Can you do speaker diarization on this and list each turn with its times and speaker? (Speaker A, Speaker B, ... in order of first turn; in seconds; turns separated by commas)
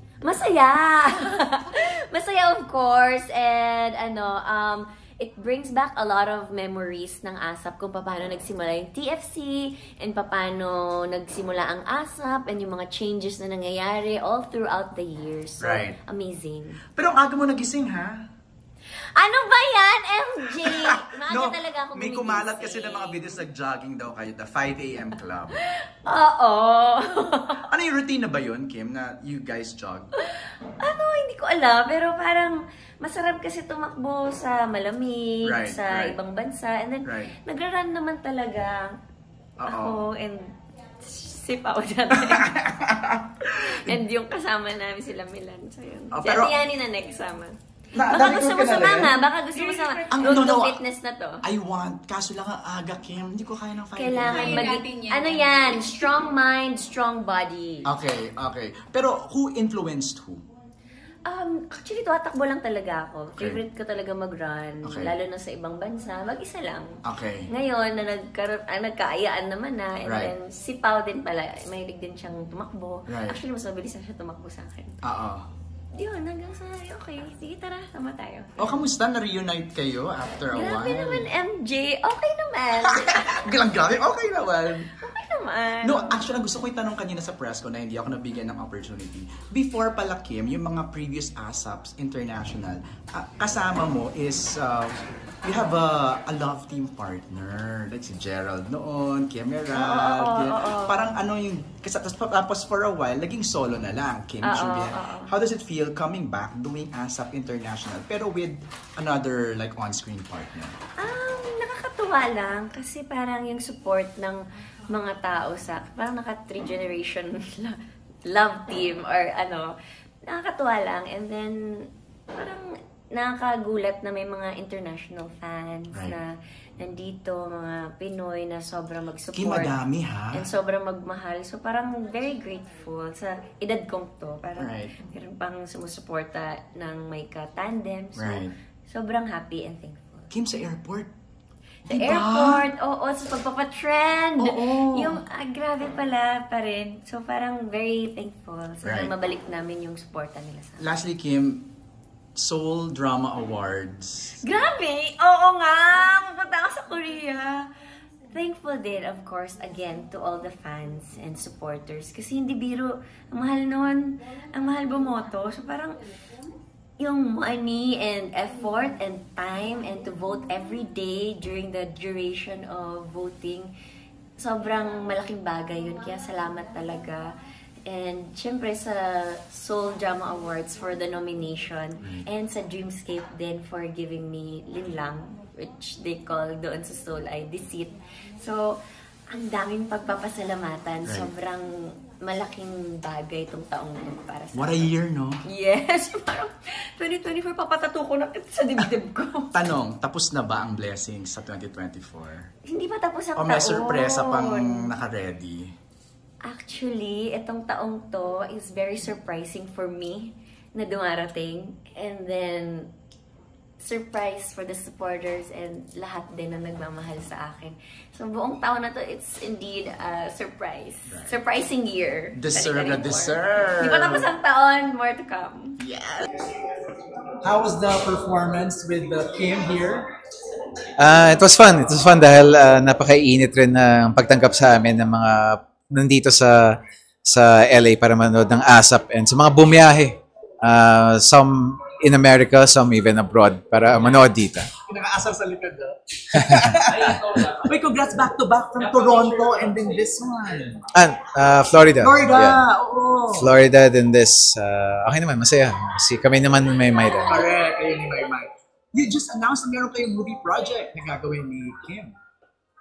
Speaker A: 0.2-16.8, Speaker B: 15.6-16.0, Speaker B: 16.9-18.2, Speaker A: 19.1-23.4, Speaker B: 20.5-25.6, Speaker A: 25.6-27.6, Speaker B: 27.6-30.1, Speaker A: 30.2-38.9, Speaker B: 35.4-36.1, Speaker B: 37.0-37.4, Speaker B: 39.6-40.0, Speaker A: 39.6-42.5, Speaker B: 42.2-44.0, Speaker A: 43.6-47.5, Speaker B: 46.1-46.6, Speaker B: 47.9-49.1, Speaker A: 48.1-51.4, Speaker B: 50.1-50.8, Speaker B: 51.4-54.8, Speaker A: 53.9-57.9, Speaker B: 57.8-60.4, Speaker A: 61.3-66.9, Speaker B: 64.8-65.2, Speaker B: 67.0-67.5, Speaker A: 67.5-75.0, Speaker B: 70.0-70.3, Speaker B: 73.1-73.4, Speaker B: 75.0-75.5, Speaker A: 76.0-78.8, Speaker B: 78.6-81.3, Speaker A: 80.5-83.5, Speaker B: 82.8-85.0, Speaker A: 85.0-86.3, Speaker B: 85.8-110.8, Speaker A: 99.7-101.1, Speaker A: 104.4-105.3, Speaker A: 111.0-117.8, Speaker A: 118.3-119.7, Speaker A: 120.3-121.5, Speaker A: 122.3-122.6, Speaker A: 123.1-129.7, Speaker B: 125.9-126.2, Speaker B: 129.3-130.5, Speaker A: 130.3-140.3, Speaker B: 134.6-135.0, Speaker B: 138.2-138.5, Speaker B: 140.3-141.1, Speaker B: 141.9-142.7, Speaker A: 141.9-150.8, Speaker B: 144.4-145.2, Speaker B: 148.8-149.1, Speaker B: 150.8-151.7, Speaker B: 152.3-154.4, Speaker A: 154.4-157.7, Speaker A: 158.3-166.0, Speaker A: 167.0-173.7, Speaker A: 174.4-177.2, Speaker A: 177.9-188.7, Speaker A: 189.3-194.9, Speaker B: 194.5-195.4, Speaker A: 195.5-199.5, Speaker B: 199.5-202.5, Speaker A: 202.7-204.9, Speaker B: 203.3-205.7, Speaker A: 206.5-212.9, Speaker A: 213.8-225.8, Speaker B: 221.1-221.4, Speaker B: 222.3-224.3, Speaker B: 225.8-226.3, Speaker C: 226.6-230.1, Speaker D: 231.0-244.7, Speaker C: 244.9-250.8, Speaker D: 250.9-252.7, Speaker C: 252.0-253.5, Speaker D: 253.3-257.4, Speaker C: 257.3-262.1